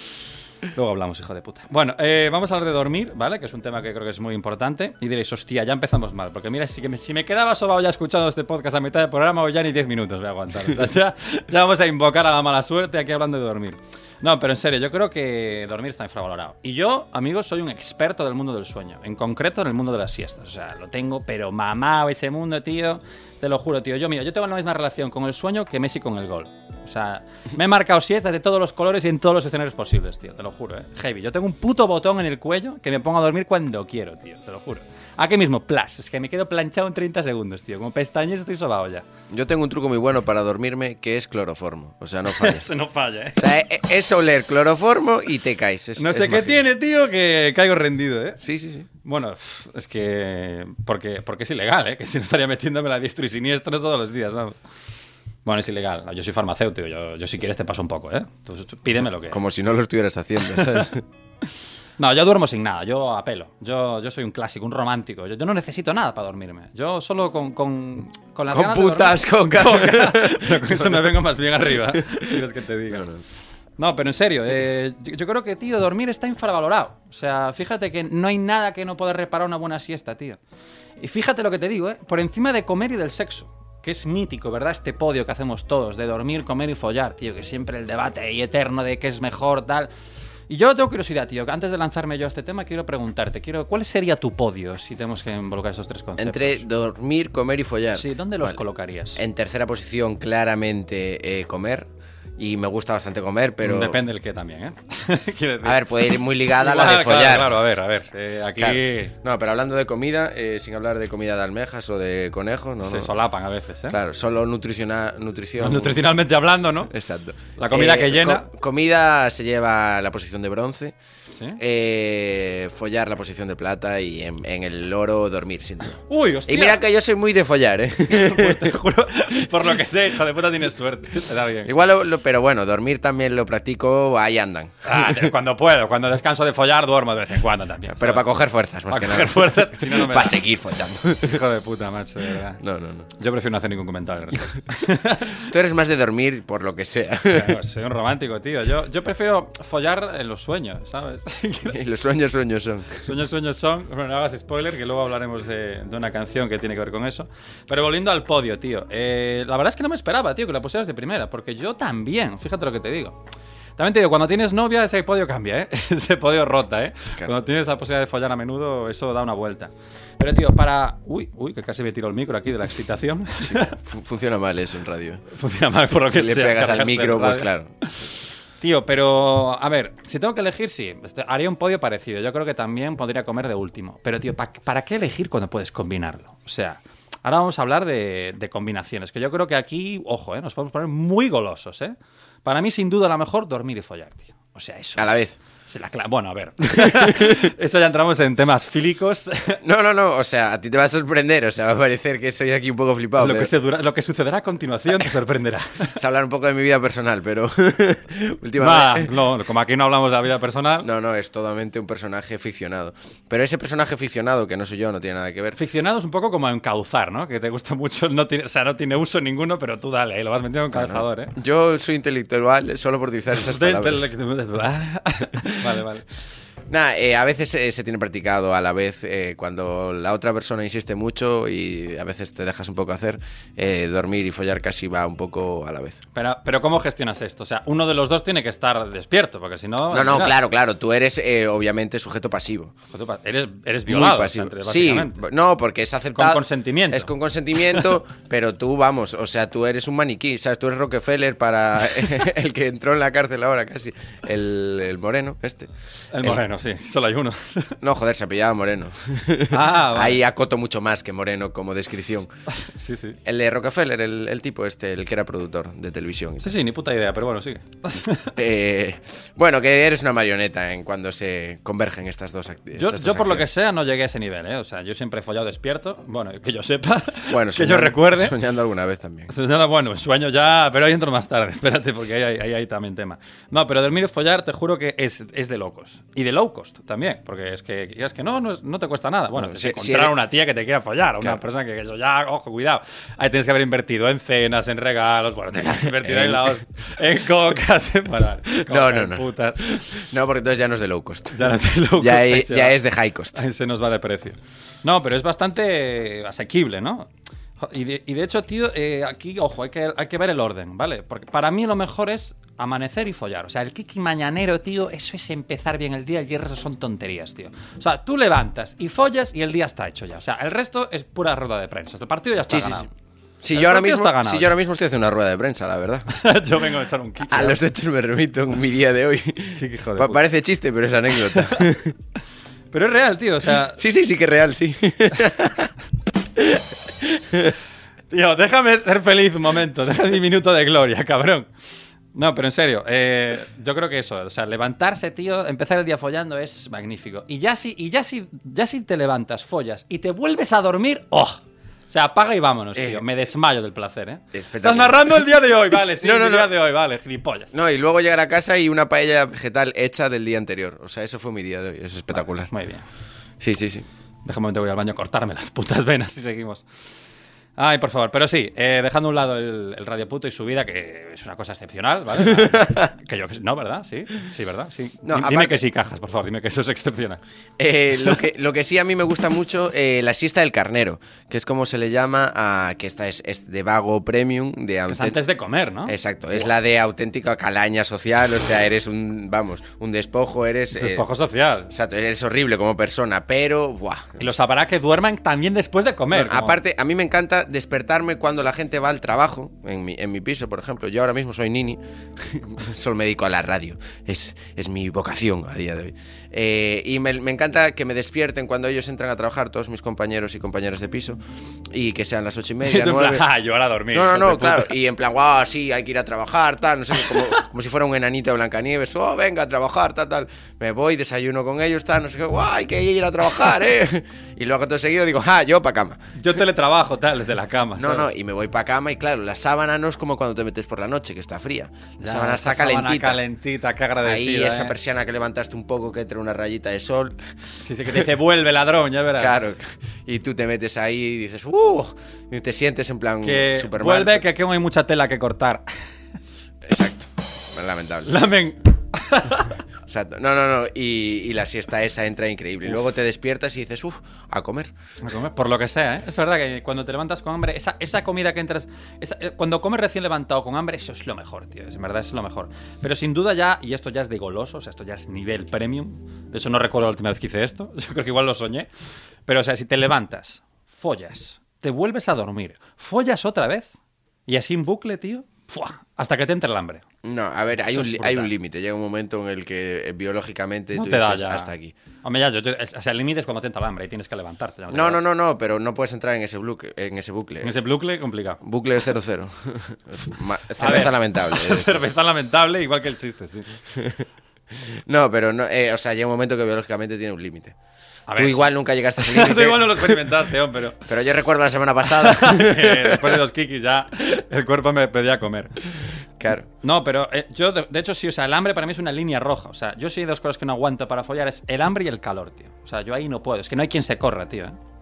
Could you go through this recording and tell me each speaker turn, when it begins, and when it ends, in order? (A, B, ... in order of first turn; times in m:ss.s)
0:00.7-0:39.1 A
0:39.3-0:42.6 B
0:42.3-0:43.4 A
0:43.4-0:46.6 B
0:46.0-0:48.4 A
0:48.4-0:48.9 B
0:49.0-0:54.6 A
0:55.4-0:59.4 A
0:59.3-1:01.0 B
1:00.6-1:00.9 A
1:02.0-1:13.1 A
1:08.5-1:11.2 B
1:11.9-1:13.2 B
1:13.8-1:20.4 A
1:21.0-1:29.9 A
1:30.5-1:36.6 A
1:36.2-1:38.6 B
1:37.9-1:39.2 A
1:39.2-1:44.0 B
1:43.6-1:45.9 A
1:45.6-1:47.6 B
1:46.6-1:49.1 A
1:48.6-1:53.2 B
1:52.8-1:54.0 A
1:53.9-1:56.1 B
1:55.6-1:56.9 A
1:56.9-2:01.0 B
1:57.6-1:58.5 A
2:01.6-2:08.8 B
2:06.1-2:06.8 A
2:08.1-2:11.7 A
2:11.6-2:15.3 B
2:14.8-2:18.3 A
2:17.9-2:21.4 B
2:18.9-2:20.4 A
2:21.2-2:22.6 A
2:22.6-2:23.1 B
2:23.2-2:25.5 A
2:25.4-2:27.6 B
2:27.3-2:31.8 A
2:31.7-2:33.1 B
2:33.0-2:43.2 A
2:43.8-2:53.8 A
2:53.4-2:55.2 B
2:55.3-2:58.1 A
2:56.1-2:57.7 B
2:58.6-3:19.6 A
3:15.0-3:15.4 B
3:16.7-3:17.5 B
3:19.6-3:23.5 B
3:23.2-3:26.0 A
3:26.0-3:29.1 B
3:28.6-3:30.9 A
3:30.8-3:35.6 B
3:35.6-3:41.3 A
3:40.7-3:44.1 B
3:43.4-3:46.0 A
3:46.7-3:56.0 B
3:56.2-4:00.4 A
3:59.9-4:02.7 B
4:02.9-4:05.2 A
4:03.9-4:15.7 B
4:06.1-4:07.1 A
4:16.1-4:17.8 A
4:17.8-4:22.3 B
4:19.5-4:20.2 A
4:22.6-4:23.2 A
4:23.2-4:26.6 B
4:26.4-4:28.4 A
4:28.4-4:33.5 B
4:32.8-4:38.4 A
4:37.3-4:39.3 B
4:39.3-4:59.8 A
4:49.4-4:50.1 B
4:55.5-4:56.6 B
4:58.5-5:01.4 B
5:01.3-5:02.8 A
5:02.0-5:03.4 B
5:03.3-5:22.9 A
5:22.5-5:22.9 B
5:23.4-5:26.1 B
5:23.5-5:24.5 A
5:26.1-5:27.6 A
5:27.3-5:32.0 B
5:29.6-5:30.2 A
5:32.7-5:33.8 A
5:33.8-5:35.7 B
5:36.4-5:37.6 B
5:38.1-5:41.5 A
5:42.1-5:57.5 A
5:52.8-5:53.0 B
5:54.3-5:56.5 B
5:57.5-6:02.5 B
6:02.1-6:02.8 A
6:03.4-6:03.9 B
6:04.2-6:06.6 A
6:07.6-6:17.2 A
6:12.2-6:12.9 B
6:15.0-6:15.6 B
6:17.6-6:25.2 B
6:24.9-6:26.5 A
6:25.9-6:31.1 B
6:30.8-6:31.7 A
6:31.7-6:34.4 B
6:34.2-6:36.6 A
6:36.1-6:53.3 B
6:52.6-6:54.8 A
6:53.9-7:06.1 B
7:06.2-7:08.1 A
7:07.8-7:13.2 B
7:12.0-7:14.8 A
7:14.0-7:17.2 B
7:17.6-7:19.5 A
7:19.2-7:24.2 B
7:23.2-7:25.6 A
7:26.6-7:28.2 B
7:28.1-7:29.6 A
7:29.9-7:34.7 B
7:35.0-7:48.7 A
7:49.3-7:53.7 A
7:54.3-7:56.8 A
7:57.0-8:01.7 B
7:57.6-7:58.3 A
8:00.7-8:01.5 A
8:02.0-8:05.0 A
8:04.7-8:07.6 B
8:07.4-8:08.4 A
8:08.4-8:11.8 B
8:10.6-8:13.6 A
8:13.7-8:14.0 B
8:14.7-8:17.6 B
8:18.1-8:20.8 A
8:18.2-8:20.1 B
8:20.9-8:23.2 B
8:22.0-8:25.6 A
8:26.2-8:26.5 B
8:26.6-8:34.6 A